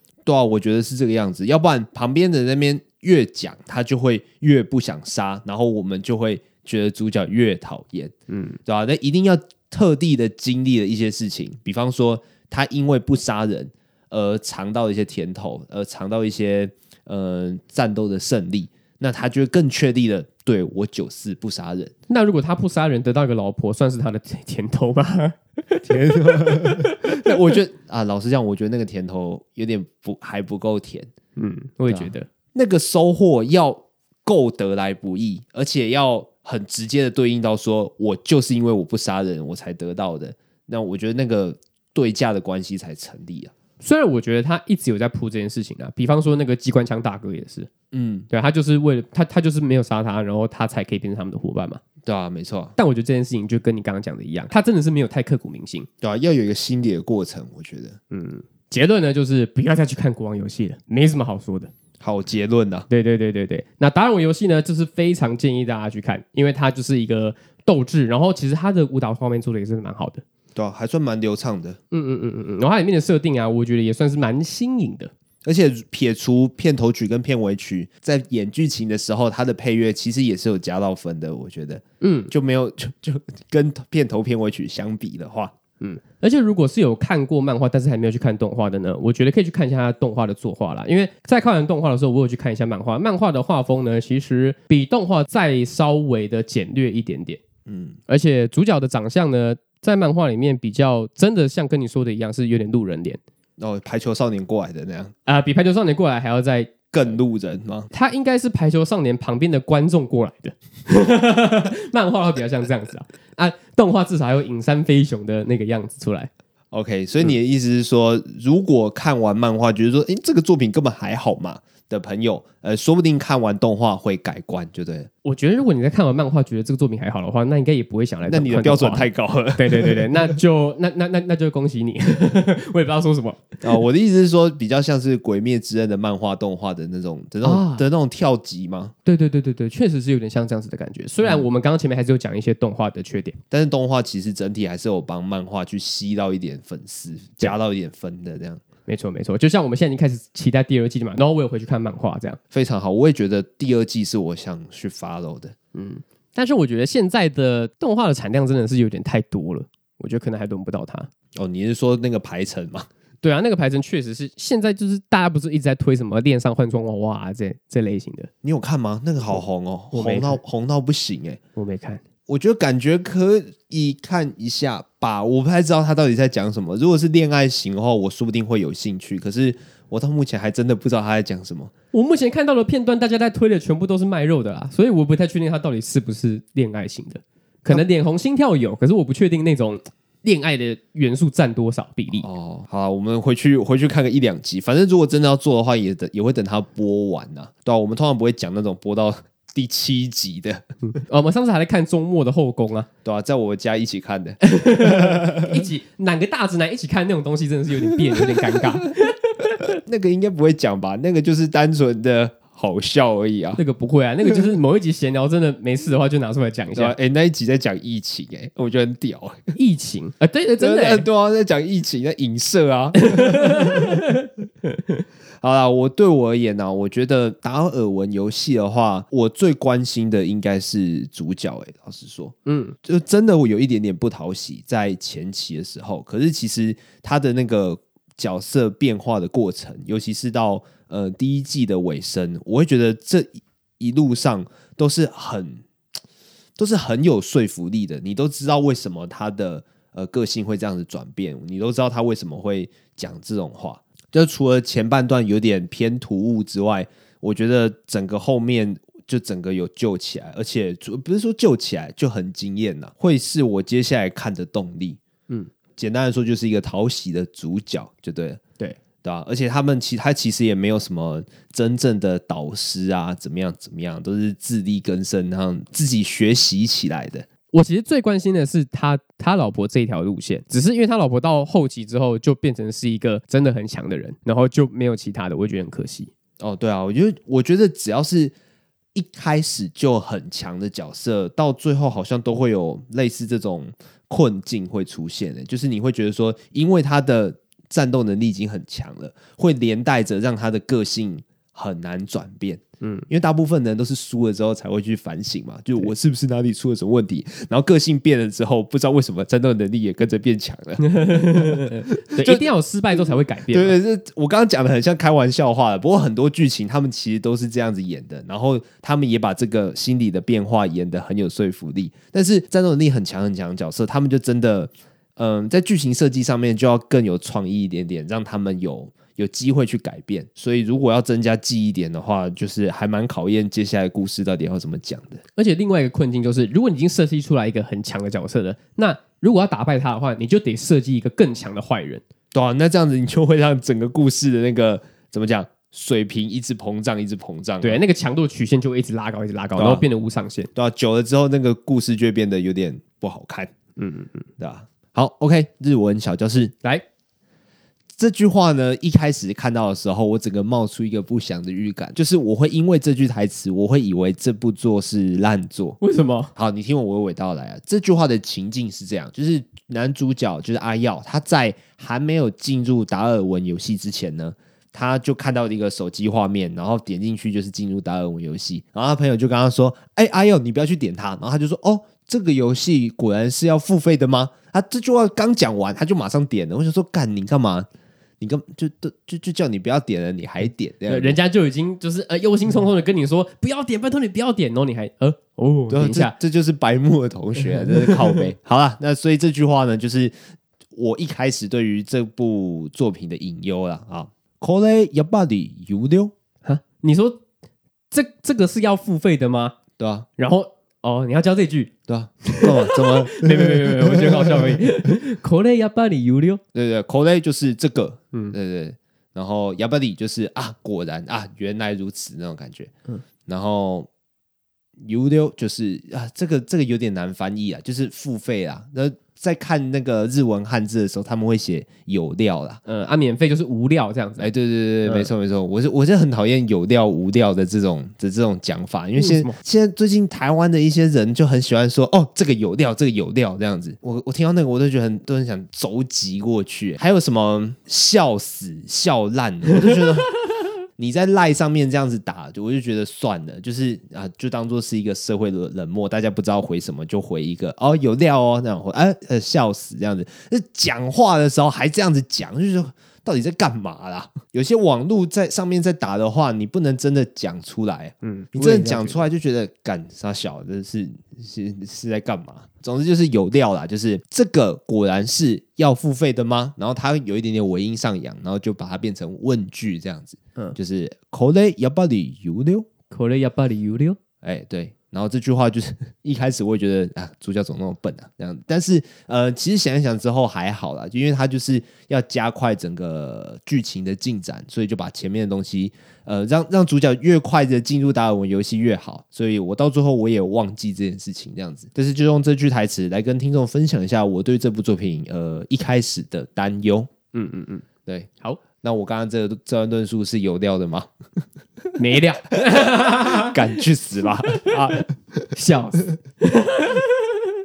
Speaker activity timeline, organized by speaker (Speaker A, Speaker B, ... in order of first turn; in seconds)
Speaker A: 0.3-8.1, 8.7-21.9, 25.8-31.1, 31.9-43.5, 47.9-48.3, 52.0-52.8, 56.0-58.0, 62.0-62.9, 70.5-71.8, 75.4-85.5, 97.7-98.0, 103.6-105.1, 106.9-107.9, 116.7-125.1, 128.3-130.4, 133.6-138.9, 143.5-148.6, 152.5-155.5, 161.3-162.9, 168.4-171.4, 172.3-181.7, 192.2-200.6, 203.0-205.7, 207.9-208.8, 209.6-213.6, 216.7-219.5, 220.6-224.1, 225.4-245.6, 246.6-265.0, 265.8-268.4, 269.0-277.3, 286.4-288.4, 288.9-335.2, 342.3-347.8, 349.6-349.8, 350.6-353.5, 354.4-356.5, 357.9-365.8, 366.4-387.7, 388.2-391.2, 395.7-400.1, 400.8-406.1, 409.8-410.1, 411.9-414.6, 416.5-422.7, 423.3-423.9, 424.8-432.6, 434.2-450.1, 450.8-482.7, 484.2-506.9, 508.6-510.9, 512.8-514.9
Speaker B: 8.3-8.6, 22.1-27.6, 31.4-32.3, 43.8-47.7, 48.3-51.8, 52.8-55.9, 58.1-61.7, 62.9-70.2, 71.9-75.1, 82.0-82.3, 85.8-97.4, 98.1-103.2, 105.3-106.9, 107.9-116.3, 125.2-133.8, 137.4-137.8, 139.1-143.4, 148.9-152.4, 155.7-161.1, 163.2-168.3, 169.9-170.4, 171.6-172.0, 181.9-192.3, 200.8-202.9, 204.4-209.7, 213.6-216.9, 219.6-221.1, 223.0-225.0, 232.5-232.8, 277.5-286.1, 302.8-303.1, 310.8-313.8, 335.4-342.0, 347.6-350.5, 353.8-354.2, 365.8-366.3, 390.9-396.1, 397.6-398.2, 406.4-407.2, 407.9-409.6, 410.2-411.7, 412.2-416.4, 432.7-434.3, 434.8-435.1, 439.0-439.4, 468.0-469.1, 482.9-484.0, 507.1-507.7, 511.8-513.6, 514.3-517.2